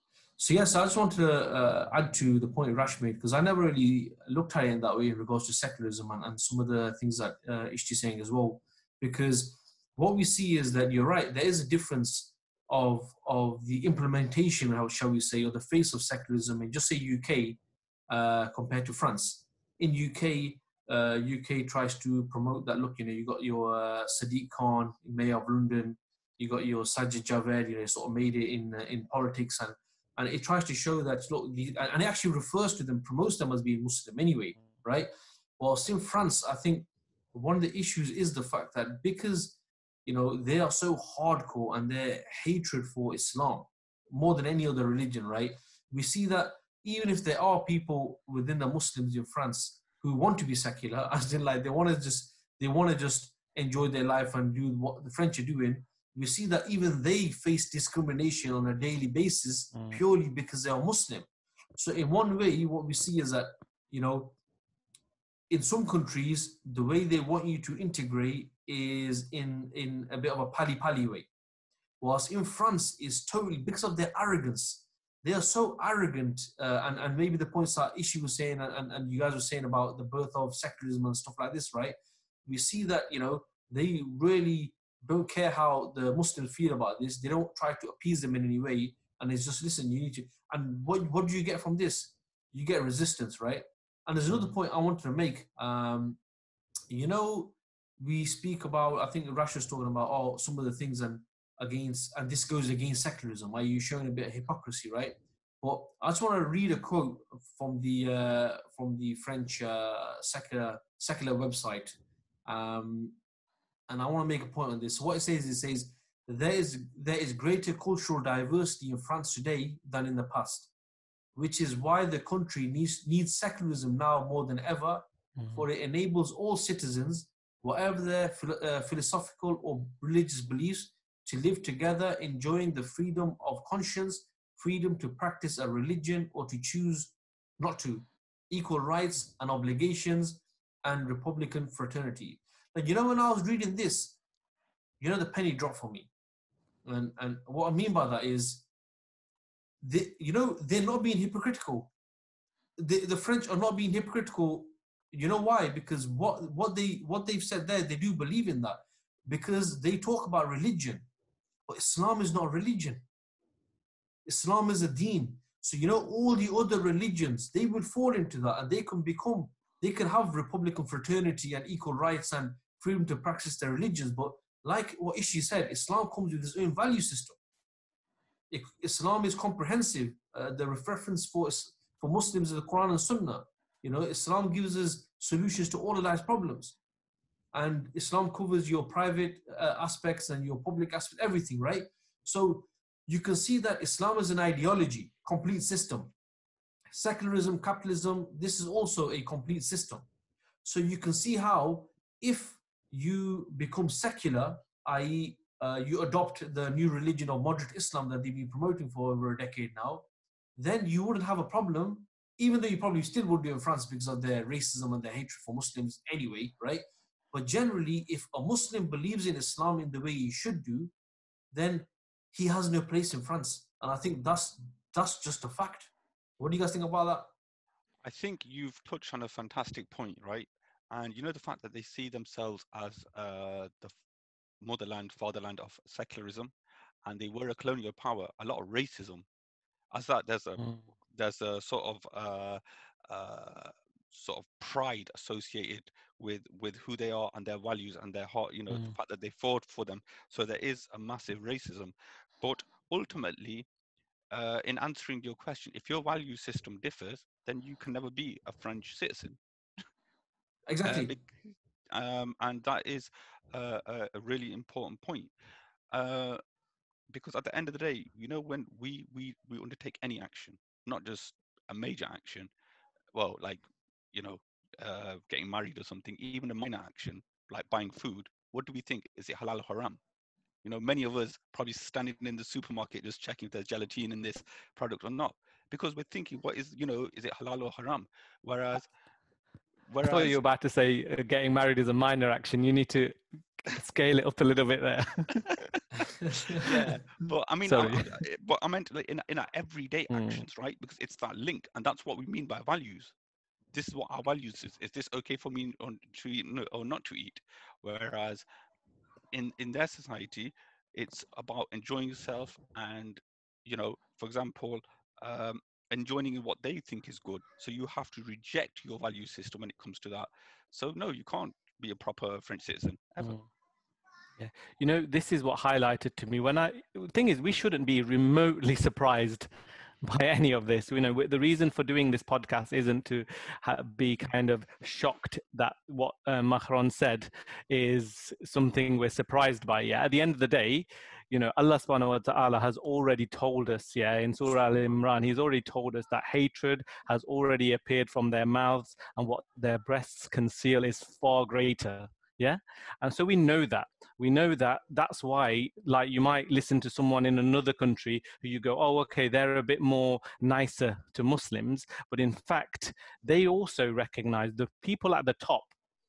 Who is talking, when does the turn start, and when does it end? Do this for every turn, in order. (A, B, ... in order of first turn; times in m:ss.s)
0:00.4-1:04.3 A
0:59.7-1:00.0 B
1:05.5-1:11.3 A
1:12.0-1:36.2 A
1:36.9-1:53.2 A
1:53.9-2:00.7 A
2:01.3-2:24.2 A
2:05.4-2:05.6 B
2:25.0-2:26.1 A
2:26.8-2:28.6 A
2:29.8-2:31.9 A
2:32.8-2:41.0 A
2:41.7-2:43.0 A
2:44.2-2:57.4 A
2:58.5-3:06.8 A
3:07.5-3:16.1 A
3:16.9-3:20.0 A
3:20.6-3:30.0 A
3:30.6-3:40.9 A
3:41.5-3:47.3 A
3:48.0-3:53.9 C
3:54.6-3:56.5 C
3:57.0-3:59.2 C
3:59.9-4:00.6 C
4:01.1-4:13.7 C
4:14.3-4:19.4 C
4:20.7-4:21.1 A
4:20.8-4:25.3 C
4:25.9-4:26.4 C
4:27.1-4:32.5 C
4:33.1-4:40.0 C
4:40.6-4:48.9 C
4:49.9-4:50.4 C
4:50.0-4:53.2 B
4:53.7-4:55.5 B
4:56.2-4:56.6 A
4:56.6-4:57.0 B
4:56.6-5:03.1 C
4:57.7-4:58.2 B
5:00.1-5:00.4 B
5:03.7-5:08.4 C
5:09.3-5:23.4 C
5:24.4-5:29.5 B
5:30.0-6:05.7 B